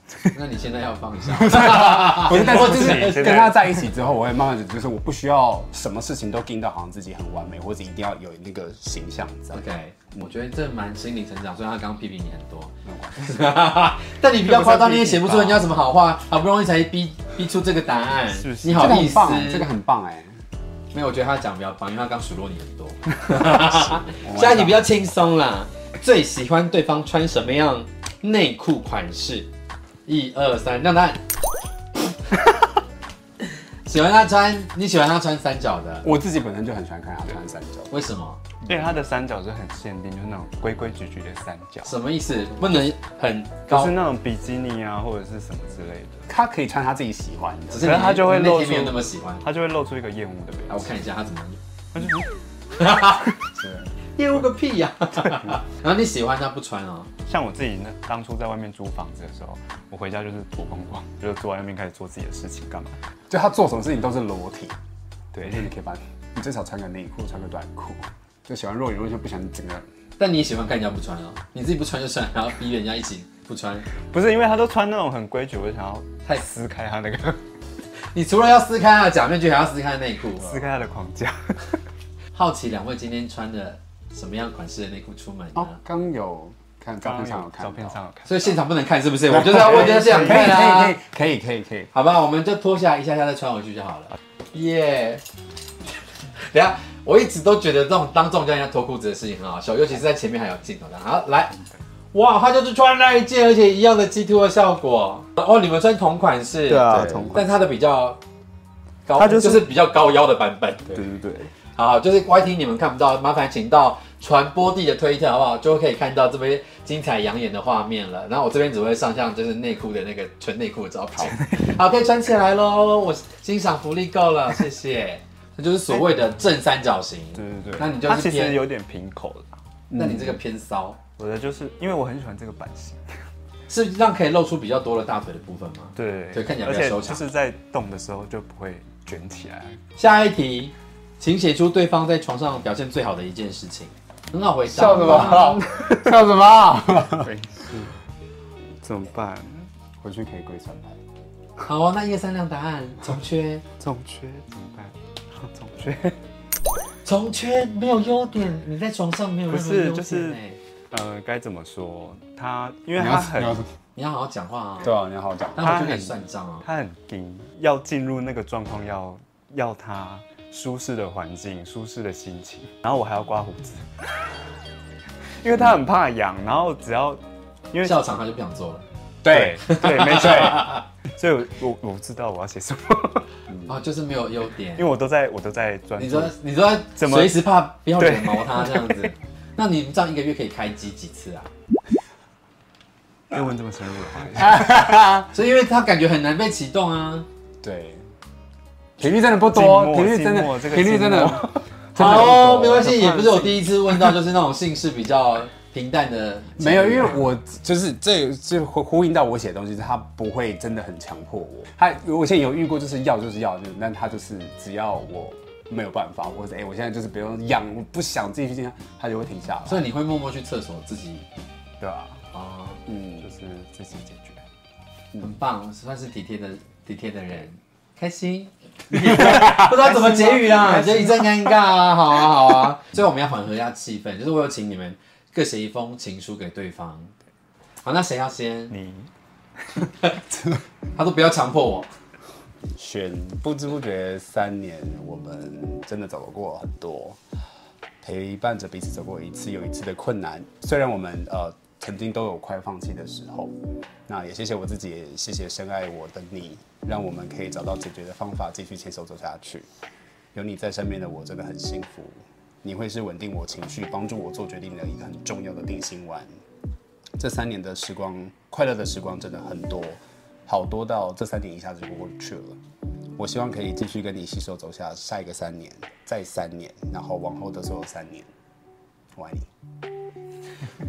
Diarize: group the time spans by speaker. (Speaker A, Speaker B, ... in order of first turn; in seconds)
Speaker A: 0.3-3.5, 9.5-19.7, 20.9-29.5, 30.1-31.2, 33.9-36.1, 37.9-38.4, 41.8-43.9, 47.7-49.4, 50.7-51.6, 52.8-53.4, 54.1-57.1, 70.2-73.9, 78.1-80.6, 82.3-85.8, 88.2-90.9, 91.9-95.2, 96.5-101.6, 102.1-108.2, 109.0-111.0, 111.7-128.6, 129.9-131.0, 133.7-137.2, 140.0-145.6, 151.6-153.6, 157.0-160.6, 163.9-164.9, 165.6-166.7, 177.8-178.8, 179.6-180.8, 183.7-184.9, 186.0-191.5, 195.3-197.3, 201.9-207.3, 219.7-221.2, 222.3-222.8, 225.2-237.1, 237.8-238.8, 240.9-241.9
Speaker B: 1.4-9.6, 12.8-13.3, 18.7-20.4, 23.6-24.8, 36.0-37.9, 38.6-38.9, 46.3-47.9, 53.6-53.9, 63.3-64.8, 65.4-69.8, 85.5-88.0, 89.3-91.9, 106.9-107.4, 129.9-130.4, 144.7-147.3, 150.0-151.0, 162.9-163.7, 164.8-165.7, 179.2-180.6, 194.4-195.3, 197.6-198.0, 199.0-203.5, 206.6-219.8, 222.9-223.2, 229.0-231.5, 240.3-240.6, 242.7-247.2, 248.0-253.5, 254.1-259.7, 260.3-266.3, 267.2-272.6, 273.1-278.3, 279.1-279.5
Speaker C: 2.1-3.7, 14.4-15.6, 18.3-19.1, 38.6-41.9, 43.7-46.3, 47.8-50.9, 51.9-52.3, 57.2-63.0, 65.3-65.7, 74.0-77.4, 80.4-81.8, 87.0-88.5, 89.4-90.7, 106.7-107.4, 109.2-109.7, 110.9-111.5, 121.2-121.7, 127.3-129.6, 131.2-133.2, 135.9-139.8, 144.9-146.1, 146.9-147.9, 148.8-149.7, 153.8-156.2, 159.5-160.4, 160.9-163.6, 165.6-174.1, 175.4-177.2, 177.7-178.0, 179.3-183.2, 184.8-189.0, 193.3-194.8, 199.4-201.6, 221.8-222.2, 223.2-224.4, 238.7-239.1